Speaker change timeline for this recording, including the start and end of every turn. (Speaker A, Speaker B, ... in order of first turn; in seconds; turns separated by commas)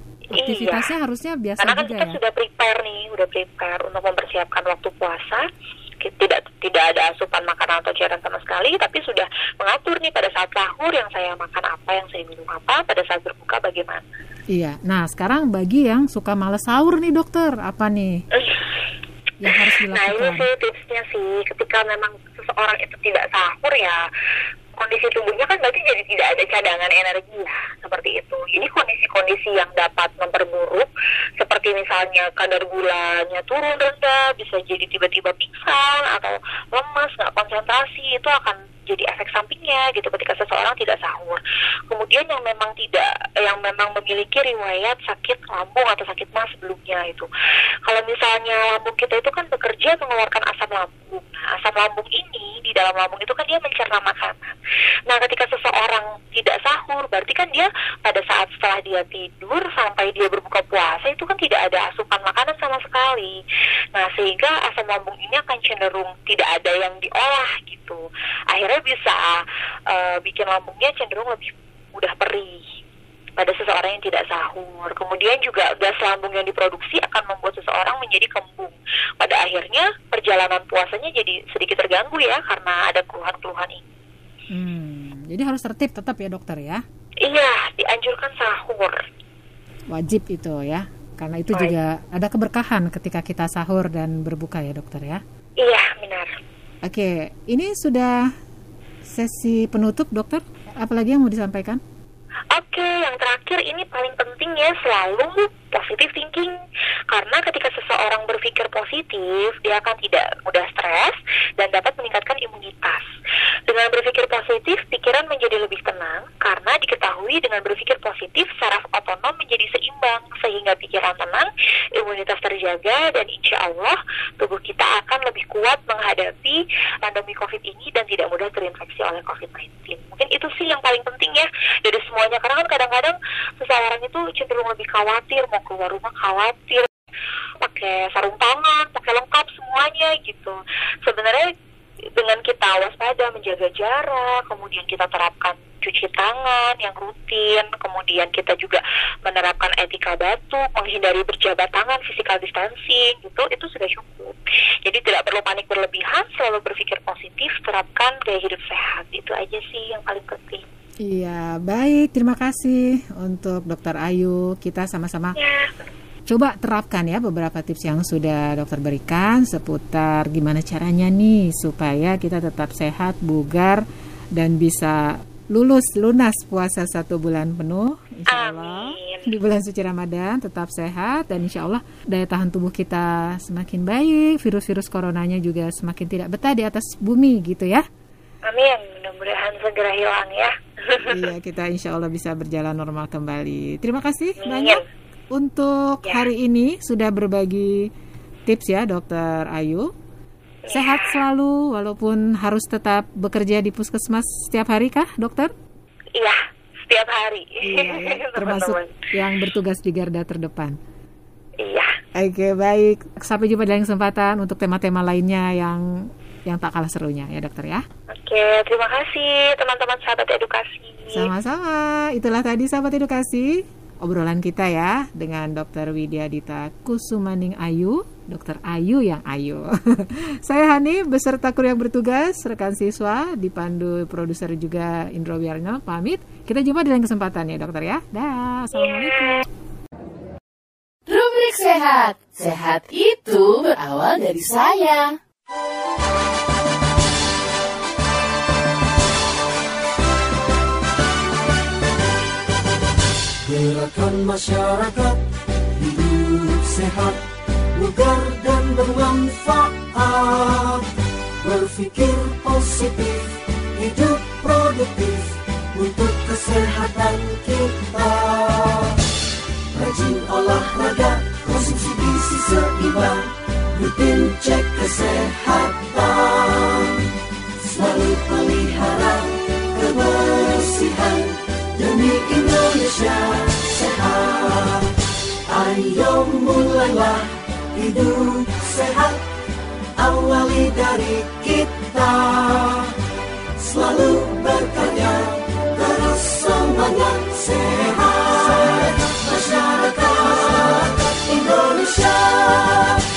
Speaker A: 0.3-0.9, Speaker B: 0.3-2.2, Speaker A: 1.6-5.5, Speaker A: 6.0-14.0, Speaker B: 14.5-18.2, Speaker A: 18.3-18.7, Speaker B: 19.4-20.5, Speaker A: 19.9-24.0, Speaker A: 24.8-47.3, Speaker A: 47.8-54.4, Speaker A: 55.1-63.4, Speaker A: 63.9-72.6, Speaker A: 73.4-83.9, Speaker B: 84.5-86.8, Speaker A: 87.2-89.0, Speaker B: 89.9-95.2, Speaker A: 95.6-96.3, Speaker B: 96.8-98.3, Speaker B: 99.1-101.8, Speaker A: 102.5-106.5, Speaker A: 107.1-113.1, Speaker A: 113.7-136.9, Speaker A: 137.6-141.5, Speaker A: 142.2-160.6, Speaker B: 161.0-165.4, Speaker A: 165.3-165.7, Speaker B: 166.3-187.8, Speaker A: 178.3-179.3, Speaker A: 188.5-191.3, Speaker B: 191.0-197.9, Speaker A: 194.4-194.8, Speaker B: 198.4-199.9, Speaker A: 200.7-201.2, Speaker B: 200.7-205.5, Speaker A: 206.1-208.9, Speaker B: 207.6-210.8, Speaker A: 211.6-211.9, Speaker B: 212.1-217.8, Speaker A: 218.1-221.3, Speaker B: 221.1-239.4, Speaker A: 238.7-239.4, Speaker C: 241.1-245.2, Speaker D: 253.4-255.2, Speaker D: 255.8-257.2, Speaker D: 257.7-260.9, Speaker D: 261.4-268.9, Speaker D: 269.7-277.0, Speaker D: 277.6-284.9, Speaker D: 285.5-289.2, Speaker D: 290.0-292.9, Speaker D: 293.6-303.0